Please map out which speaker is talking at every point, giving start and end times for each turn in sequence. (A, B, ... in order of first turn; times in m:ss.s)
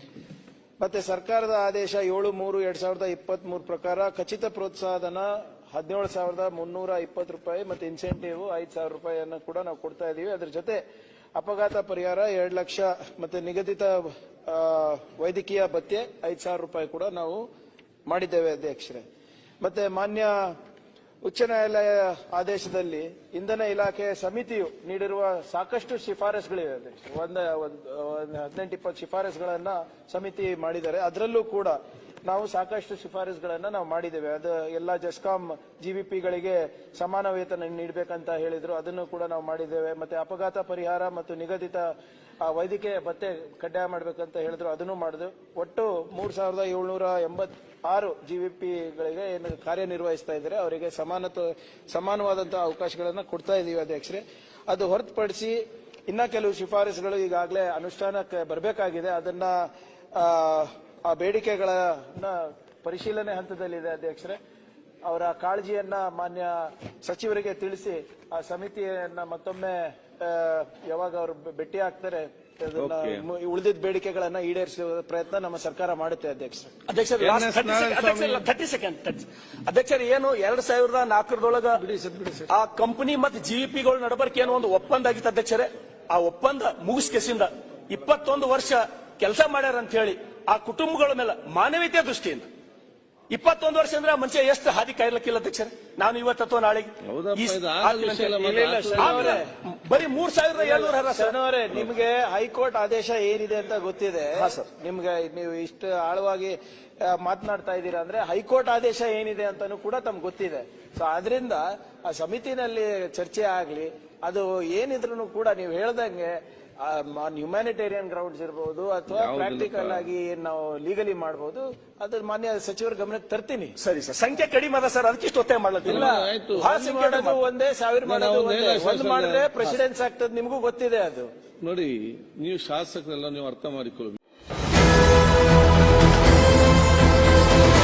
0:00.8-0:10.8 A
0:11.4-0:17.4 A
0:18.1-0:19.0 A
0:19.6-0:20.5 A
0:21.2-0:41.9 A
0:42.4-1:04.4 A
1:05.1-1:16.7 A
1:12.8-1:13.2 B
1:16.9-1:21.8 C
1:17.2-1:18.5 B
1:21.9-1:22.3 A
1:22.5-1:32.5 C
1:33.3-1:41.4 C
1:37.0-1:39.4 B
1:38.4-1:39.5 A
1:40.6-2:03.8 A
1:44.4-1:44.6 C
1:59.1-2:00.1 B
2:03.8-2:07.4 C
2:05.8-2:06.8 B
2:05.8-2:11.3 A
2:08.0-2:09.8 B
2:11.6-2:14.2 B